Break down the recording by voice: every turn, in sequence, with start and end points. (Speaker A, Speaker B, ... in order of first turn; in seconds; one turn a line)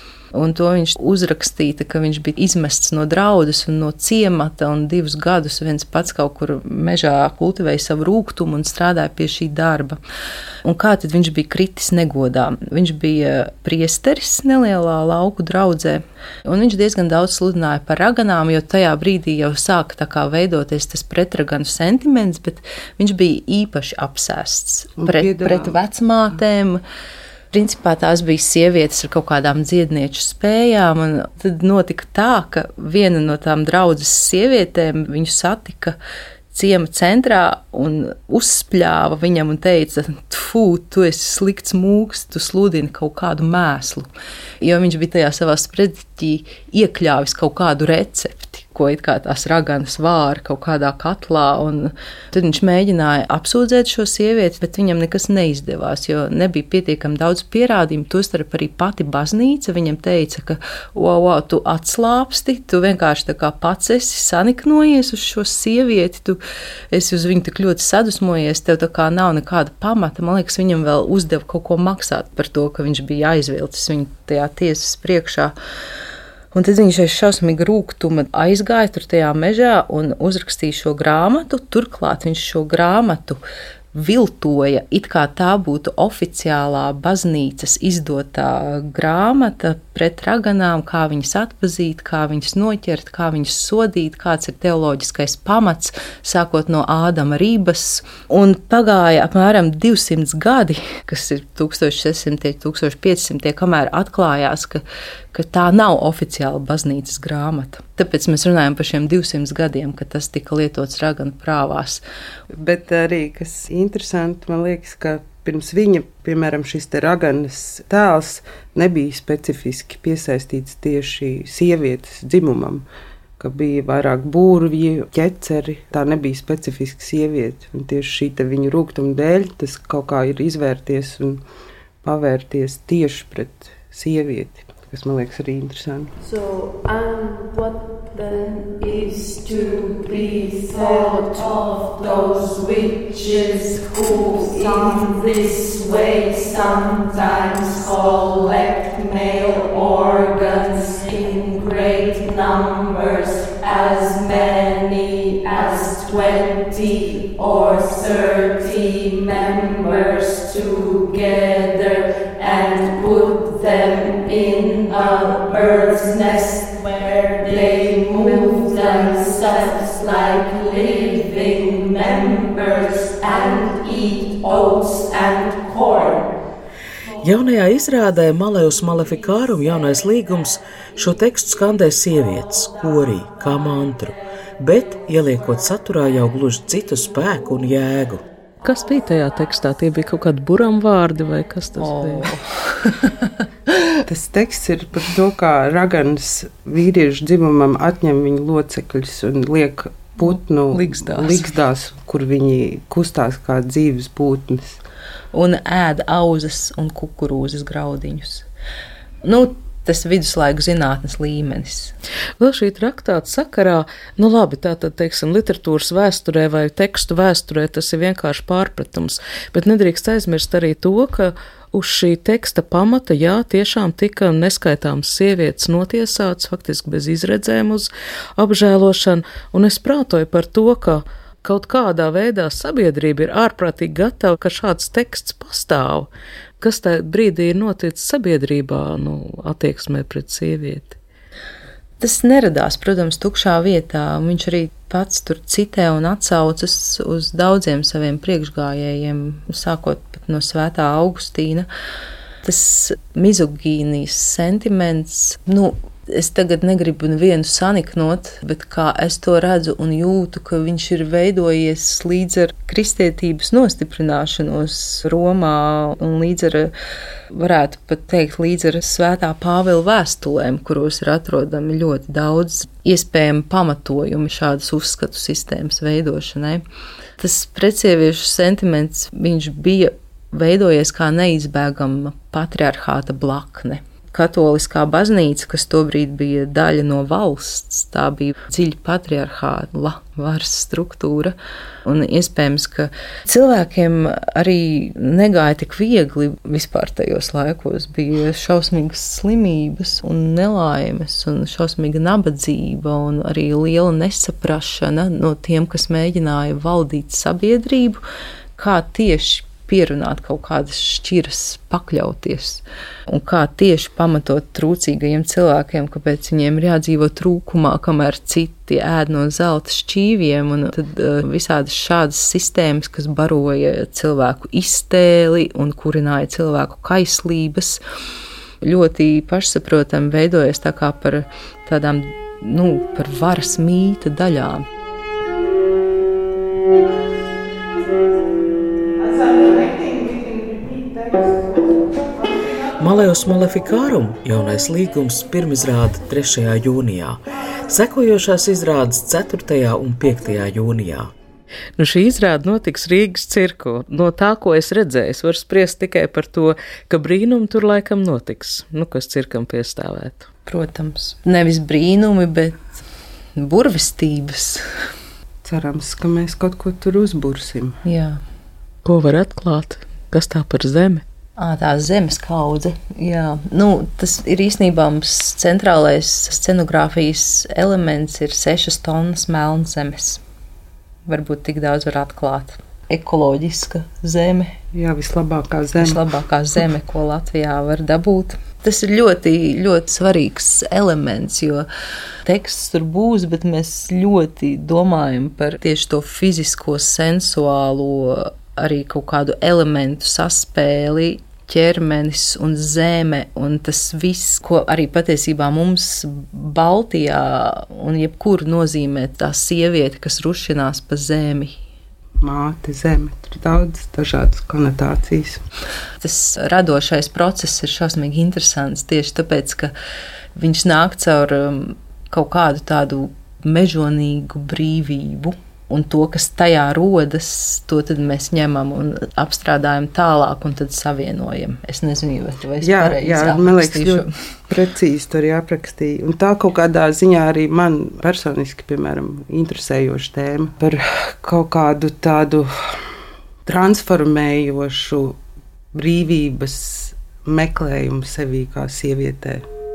Speaker A: 0.3-10.0
Speaker A: 10.6-26.8
Speaker B: 25.0-25.8
Speaker A: 27.5-36.0
Speaker A: 36.5-44.1
Speaker A: 44.6-66.4
Speaker A: 66.9-75.5
Speaker A: 76.5-104.8
Speaker A: 105.3-112.0
Speaker B: 112.5-122.9
Speaker B: 123.4-131.4
Speaker B: 132.0-136.1
Speaker C: 136.2-176.3
Speaker D: 177.2-188.2
Speaker E: 188.6-192.4
Speaker A: 191.8-193.1
Speaker B: 194.1-204.8
Speaker E: 200.8-201.4
Speaker A: 205.3-208.5
Speaker A: 209.2-211.9
Speaker E: 212.4-236.1
Speaker E: 236.6-241.0
Speaker A: 242.0-251.7
Speaker A: 252.4-266.7
Speaker A: 267.3-276.6
Speaker A: 277.2-308.0
Speaker A: 308.6-327.8
Speaker A: 328.6-334.7
Speaker B: 339.0-342.7
Speaker D: 342.8-351.1
Speaker E: 351.8-360.3
Speaker A: 360.5-362.8
Speaker A: 363.4-364.6
Speaker B: 365.4-367.8
Speaker A: 367.9-368.2
Speaker E: 368.9-371.0
Speaker A: 371.4-380.2
Speaker A: 381.1-384.6
Speaker B: 384.7-386.0
Speaker A: 385.8-391.7
Speaker A: 392.2-411.6
Speaker B: 412.2-415.4
Speaker A: 416.0-419.7
Speaker A: 420.4-434.1
Speaker B: 432.6-442.5
Speaker B: 443.4-445.2
Speaker B: 445.7-449.4